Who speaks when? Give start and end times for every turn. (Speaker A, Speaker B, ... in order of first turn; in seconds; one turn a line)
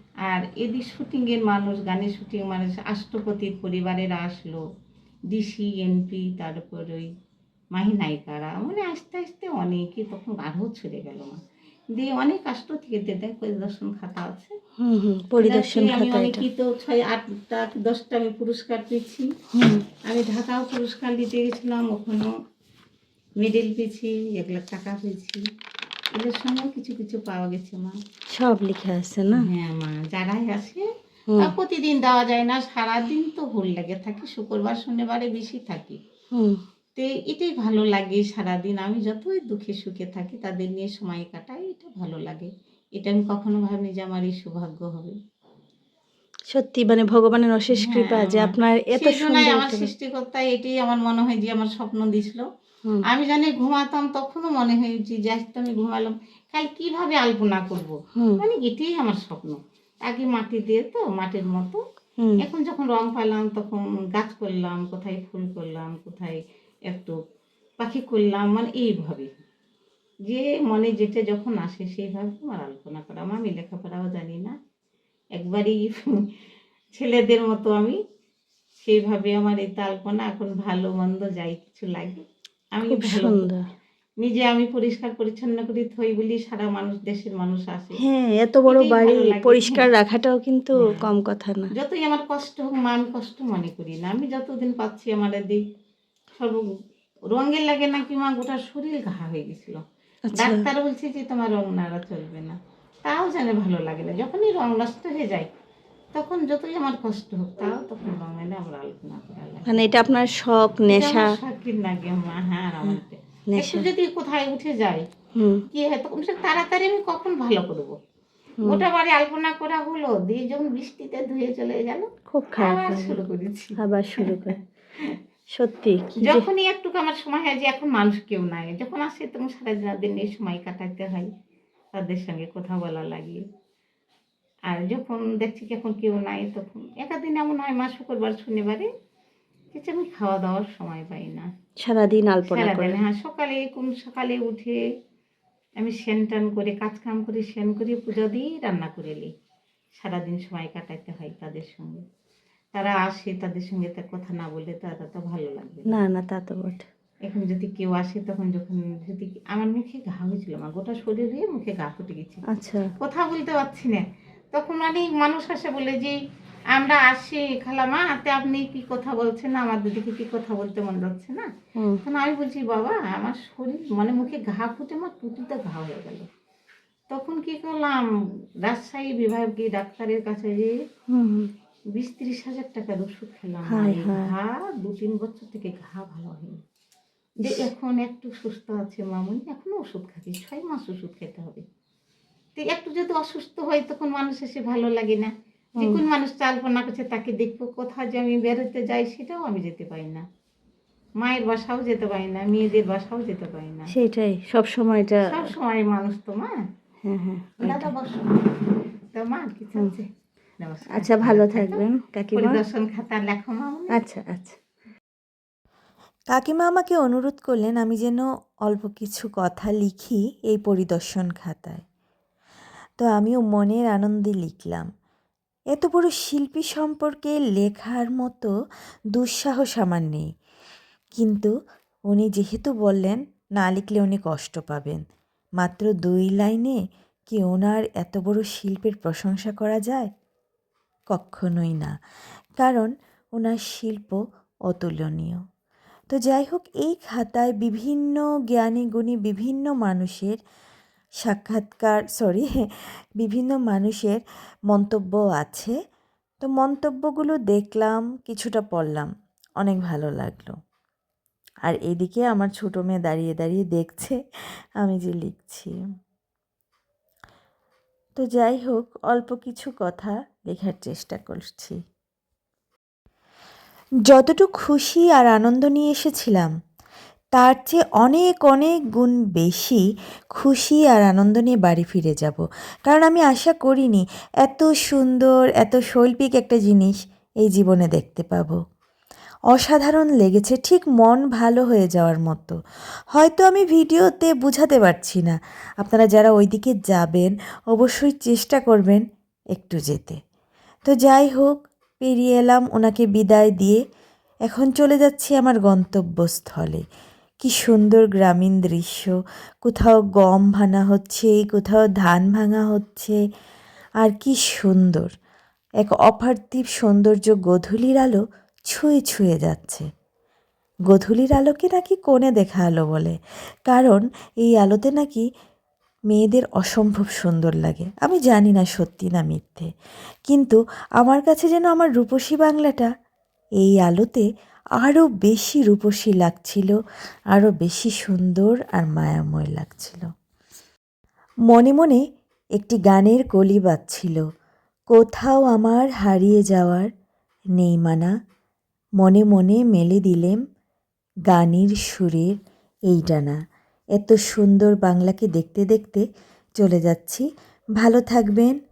Speaker A: 0.3-4.6
Speaker A: 5.3-7.1
Speaker A: 7.8-11.4
Speaker A: 11.9-14.5
Speaker B: 14.8-16.4
Speaker A: 15.4-19.3
Speaker B: 19.5-19.8
Speaker A: 20.1-22.3
Speaker A: 23.4-25.4
Speaker A: 26.2-27.9
Speaker B: 28.3-29.5
Speaker A: 29.3-30.9
Speaker A: 31.4-36.0
Speaker B: 36.3-36.6
Speaker A: 37.0-45.2
Speaker B: 46.5-49.9
Speaker A: 47.7-52.5
Speaker A: 53.1-61.8
Speaker B: 58.2-58.4
Speaker A: 62.4-67.2
Speaker A: 67.8-69.3
Speaker A: 70.3-74.5
Speaker A: 75.4-76.1
Speaker A: 77.0-78.0
Speaker A: 78.8-82.2
Speaker A: 82.7-83.5
Speaker B: 82.9-83.6
Speaker A: 84.2-88.0
Speaker B: 88.0-91.7
Speaker A: 88.7-89.8
Speaker A: 91.7-95.6
Speaker A: 96.4-96.6
Speaker A: 97.3-99.8
Speaker B: 100.3-100.6
Speaker A: 100.4-102.5
Speaker A: 103.1-105.5
Speaker A: 106.2-109.8
Speaker B: 109.7-111.3
Speaker A: 110.9-115.0
Speaker B: 112.8-113.9
Speaker B: 115.3-115.7
Speaker A: 115.7-118.0
Speaker A: 118.6-124.5
Speaker B: 122.3-123.2
Speaker B: 123.8-124.6
Speaker B: 125.5-126.5
Speaker A: 126.2-131.3
Speaker A: 132.0-133.4
Speaker A: 134.7-138.9
Speaker A: 139.7-141.5
Speaker B: 141.8-143.0
Speaker A: 142.4-144.8
Speaker A: 145.8-149.3
Speaker A: 150.0-152.0
Speaker A: 152.8-155.9
Speaker B: 155.9-156.9
Speaker A: 157.3-162.4
Speaker B: 162.5-162.9
Speaker A: 163.0-164.0
Speaker A: 164.5-166.2
Speaker A: 166.8-171.5
Speaker A: 172.0-176.3
Speaker A: 177.1-178.1
Speaker A: 178.7-180.7
Speaker B: 181.1-181.5
Speaker A: 182.0-186.6
Speaker B: 183.7-184.3
Speaker B: 187.4-187.7
Speaker A: 187.4-191.6
Speaker A: 192.6-200.2
Speaker A: 201.2-203.9
Speaker B: 203.9-205.4
Speaker A: 205.3-206.6
Speaker B: 207.1-207.9
Speaker A: 207.6-208.5
Speaker A: 209.1-210.1
Speaker A: 210.6-211.8
Speaker B: 210.9-212.6
Speaker A: 212.3-213.9
Speaker B: 213.9-214.6
Speaker C: 216.3-221.8
Speaker C: 223.0-224.9
Speaker C: 225.7-228.5
Speaker C: 229.2-230.3
Speaker C: 231.2-231.5
Speaker C: 232.1-235.0
Speaker C: 235.6-240.1
Speaker C: 241.1-241.9
Speaker C: 242.6-244.2
Speaker C: 244.7-245.4
Speaker C: 246.1-250.4
Speaker C: 251.2-252.7
Speaker C: 253.2-254.2
Speaker C: 254.7-255.7
Speaker C: 256.4-259.1
Speaker C: 259.6-260.5
Speaker C: 261.7-264.2
Speaker C: 264.8-265.7
Speaker C: 268.2-271.8
Speaker C: 274.1-276.5
Speaker C: 277.4-279.8
Speaker C: 280.4-288.6
Speaker C: 289.5-292.6
Speaker C: 293.1-299.0
Speaker C: 299.6-300.2
Speaker C: 300.9-303.8
Speaker C: 304.5-306.8
Speaker C: 307.4-309.1
Speaker C: 309.6-313.2
Speaker C: 314.0-315.1
Speaker C: 315.8-319.9
Speaker C: 320.9-323.2
Speaker C: 323.7-325.2
Speaker C: 326.1-329.7
Speaker C: 330.3-332.9
Speaker C: 333.6-334.2
Speaker C: 334.8-336.7
Speaker C: 337.3-340.1
Speaker C: 341.5-342.0
Speaker C: 342.6-344.2
Speaker C: 344.9-346.9
Speaker C: 347.6-348.1
Speaker C: 349.0-350.4
Speaker C: 351.3-352.3
Speaker C: 352.9-353.4
Speaker C: 354.0-356.0
Speaker C: 356.6-357.2
Speaker C: 357.8-358.6